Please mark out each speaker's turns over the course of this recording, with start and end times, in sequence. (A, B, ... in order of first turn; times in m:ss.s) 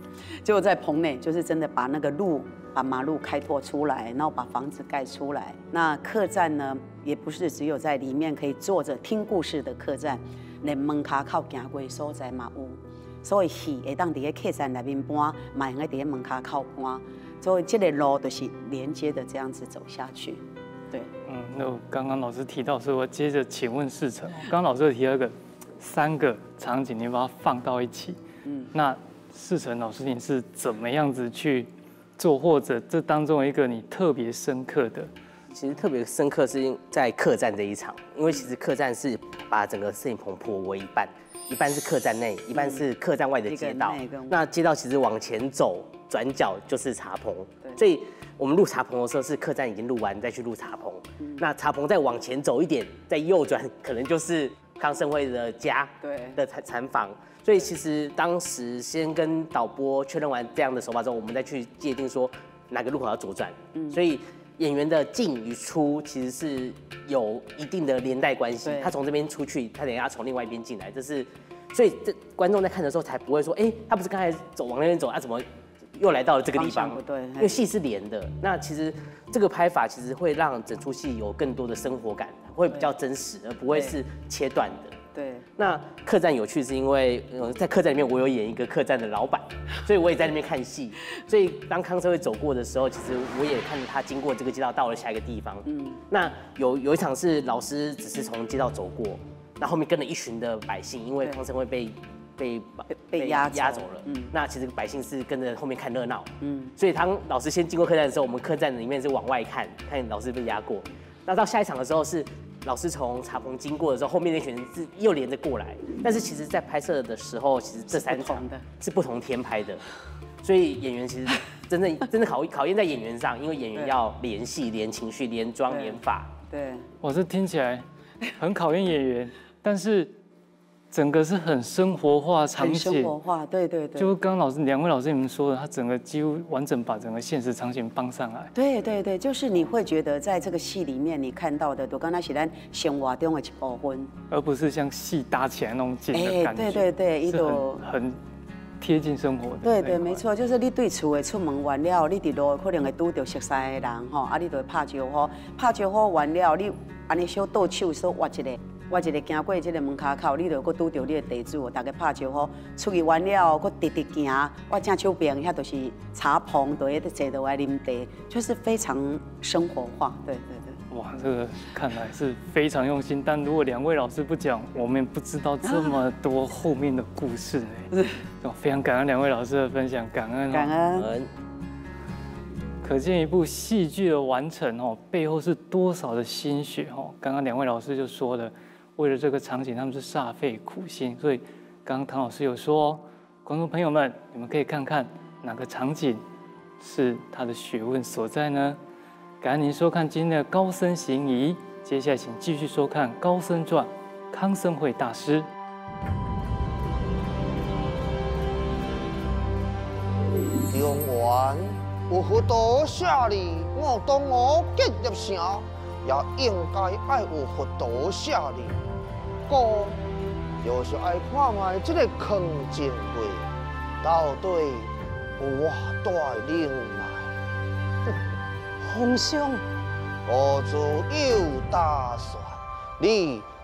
0:00.4-0:21.1 A
0:21.2-0:28.2 B
0:28.5-0:28.7 A
0:28.7-0:35.1 B
0:35.5-1:24.9 C
0:42.5-0:42.8 A
0:43.5-0:44.4 A
0:56.0-0:56.4 A
1:08.6-1:09.0 A
1:16.6-1:17.6 A
1:23.7-1:24.0 A
1:25.2-1:25.5 A
1:25.6-1:59.8 C
1:35.7-1:36.0 A
1:42.9-1:44.3 A
1:46.4-1:46.8 A
1:57.9-1:58.7 A
2:00.4-2:06.3 C
2:05.7-2:06.9 A
2:07.0-2:10.1 B
2:10.9-2:13.2 B
2:12.6-2:14.1 A
2:14.0-2:18.5 B
2:18.5-2:24.1 A
2:24.3-2:28.2 B
2:26.1-2:27.9 A
2:28.8-2:30.2 B
2:29.6-2:50.8 A
2:50.9-3:00.8 B
2:55.6-2:56.0 A
3:00.5-3:01.1 A
3:01.0-3:01.3 C
3:02.8-3:16.2 B
3:16.8-3:18.8 B
3:19.4-3:25.5 B
3:30.7-3:38.8 D
3:39.5-3:40.0 D
3:40.6-3:43.5 D
3:44.0-3:47.3 D
3:48.8-3:49.6 D
3:50.3-3:53.5 D